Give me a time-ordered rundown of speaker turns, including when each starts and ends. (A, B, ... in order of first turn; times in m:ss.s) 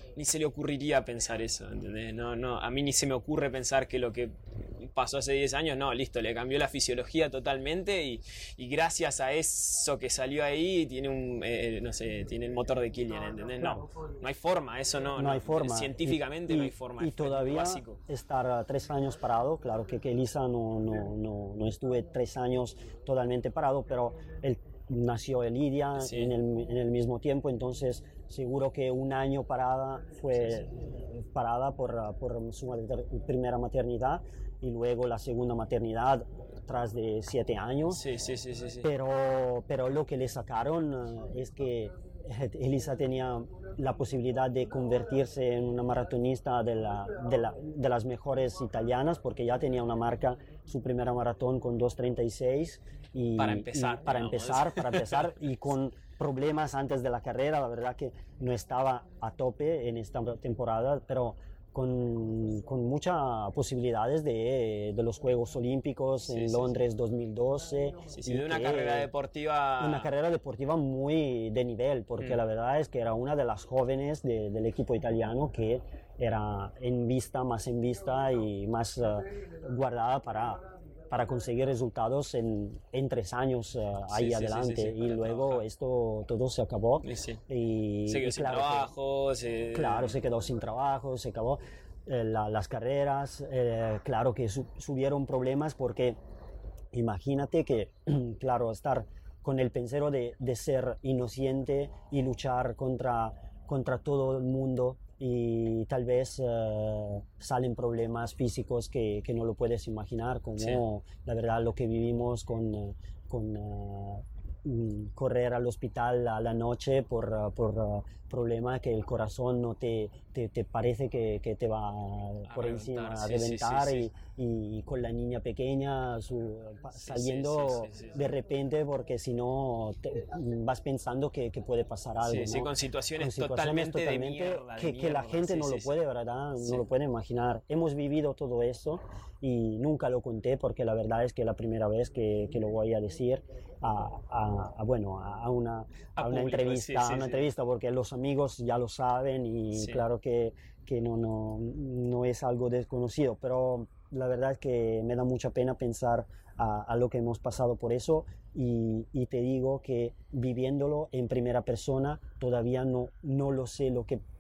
0:00.2-0:18.0 A
0:15.2-0:38.1 B
0:26.0-0:26.3 A
0:37.9-0:38.9 A
0:38.8-1:09.1 B
0:53.4-0:55.4 A
1:06.3-1:06.8 A
1:08.1-1:10.1 A
1:09.8-1:28.9 B
1:24.1-1:25.6 A
1:27.0-1:27.4 A
1:28.1-1:30.2 A
1:29.7-1:36.2 B
1:36.9-2:44.2 B
1:50.6-1:50.8 A
2:02.5-2:04.1 A
2:07.0-2:08.2 A
2:12.2-2:15.9 A
2:26.2-2:27.5 A
2:29.7-2:30.1 A